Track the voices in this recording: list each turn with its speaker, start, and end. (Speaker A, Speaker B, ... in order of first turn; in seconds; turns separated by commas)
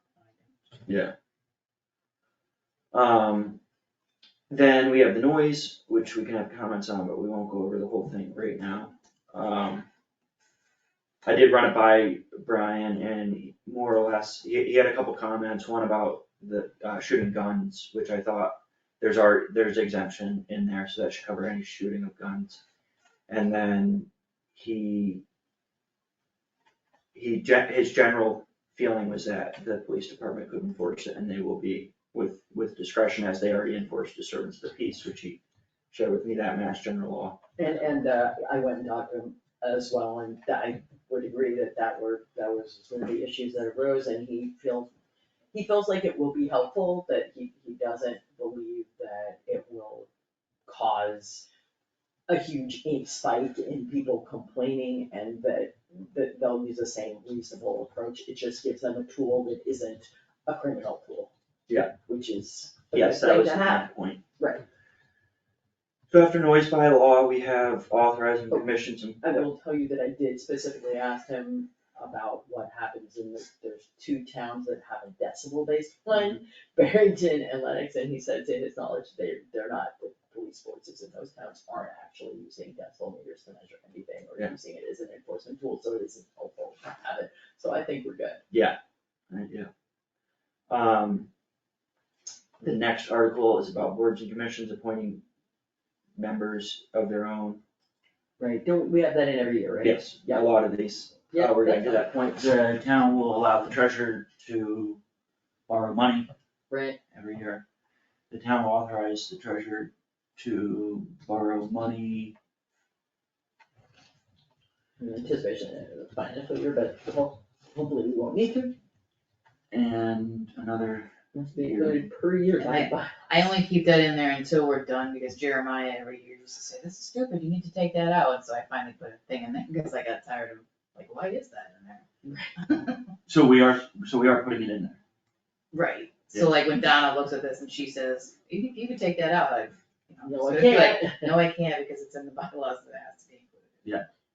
Speaker A: 0.1-0.8, Speaker B: 0.9-1.1, Speaker B: 2.9-3.6, Speaker B: 4.5-9.9, Speaker B: 11.2-22.6, Speaker B: 23.3-25.2, Speaker B: 27.1-37.4, Speaker C: 37.6-44.9, Speaker C: 45.5-50.1, Speaker C: 50.7-51.5, Speaker C: 52.3-61.3, Speaker B: 61.7-61.9, Speaker C: 61.9-64.6, Speaker B: 62.9-64.2, Speaker B: 66.1-69.5, Speaker C: 69.2-88.4, Speaker B: 88.5-88.8, Speaker B: 89.3-89.7, Speaker B: 90.7-91.3, Speaker B: 92.6-95.2, Speaker B: 96.2-97.6, Speaker C: 98.4-100.5, Speaker B: 99.8-105.0, Speaker C: 101.3-102.1, Speaker B: 105.7-106.3, Speaker C: 106.7-107.0, Speaker B: 107.1-107.6, Speaker B: 108.3-112.3, Speaker C: 115.0-118.8, Speaker B: 119.7-122.1, Speaker C: 121.3-123.2, Speaker A: 122.6-132.1, Speaker C: 132.2-132.5, Speaker A: 132.6-132.9, Speaker B: 133.3-135.0, Speaker C: 135.7-136.2, Speaker A: 136.3-143.8, Speaker C: 140.2-141.4